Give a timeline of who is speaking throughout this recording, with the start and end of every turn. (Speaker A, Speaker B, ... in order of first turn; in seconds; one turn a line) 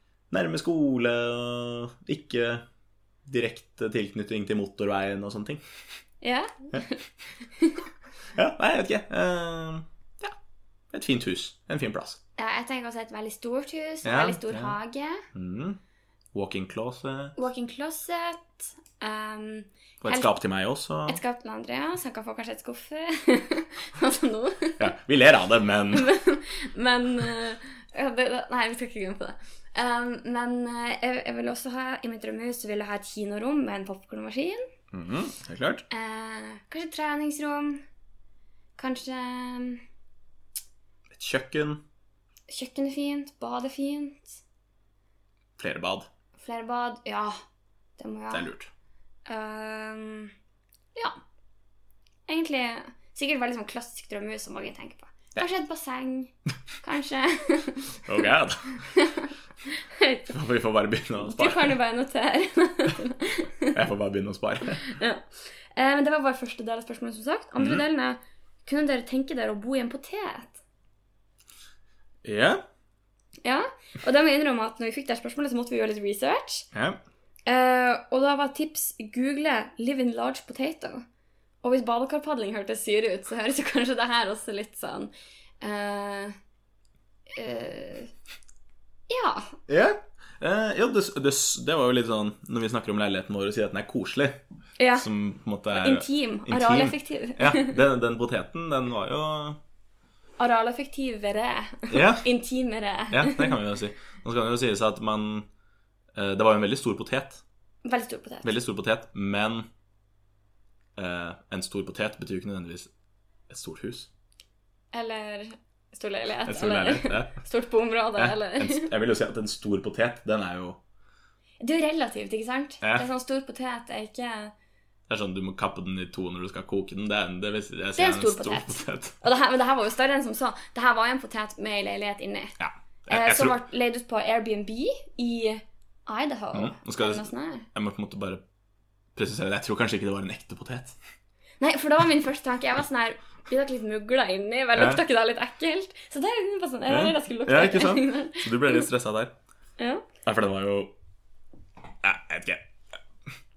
Speaker A: 0.3-2.6
Speaker A: 3.2-5.6
Speaker B: 6.2-7.8
Speaker A: 8.3-10.3
Speaker A: 10.9-12.2
Speaker B: 12.4-15.2
Speaker A: 14.0-14.8
Speaker A: 15.3-15.8
Speaker A: 16.3-17.3
Speaker B: 17.4-20.3
Speaker A: 20.0-21.2
Speaker B: 21.1-24.9
Speaker A: 24.8-26.1
Speaker B: 25.9-34.6
Speaker A: 34.9-35.8
Speaker B: 35.9-37.8
Speaker B: 38.8-39.8
Speaker A: 41.1-41.8
Speaker B: 42.5-44.4
Speaker A: 45.6-46.1
Speaker B: 46.4-47.4
Speaker B: 48.0-48.5
Speaker A: 48.3-48.7
Speaker B: 49.3-50.3
Speaker B: 50.9-51.2
Speaker B: 52.3-58.0
Speaker A: 58.0-58.9
Speaker B: 58.9-60.3
Speaker A: 60.3-61.7
Speaker B: 61.2-63.7
Speaker A: 63.7-64.8
Speaker B: 64.8-70.6
Speaker A: 72.2-72.6
Speaker B: 73.4-76.7
Speaker B: 77.5-81.0
Speaker B: 81.6-85.1
Speaker B: 85.6-86.3
Speaker B: 87.3-88.1
Speaker B: 89.1-89.6
Speaker A: 89.7-94.4
Speaker B: 94.8-95.1
Speaker A: 94.9-99.6
Speaker B: 95.7-97.8
Speaker B: 100.4-103.6
Speaker A: 101.9-102.3
Speaker A: 103.1-105.5
Speaker A: 106.1-107.4
Speaker B: 107.8-108.5
Speaker A: 108.4-109.7
Speaker A: 111.0-112.9
Speaker A: 113.5-114.1
Speaker B: 114.9-118.9
Speaker A: 116.5-117.3
Speaker A: 118.2-120.8
Speaker B: 121.6-124.5
Speaker A: 122.8-123.1
Speaker A: 125.1-129.1
Speaker B: 128.0-132.6
Speaker A: 132.6-133.6
Speaker B: 133.1-137.7
Speaker A: 136.5-138.4
Speaker A: 139.1-141.0
Speaker B: 141.6-148.9
Speaker A: 144.8-145.0
Speaker A: 146.9-149.3
Speaker B: 149.8-150.0
Speaker A: 150.2-150.9
Speaker A: 152.0-152.7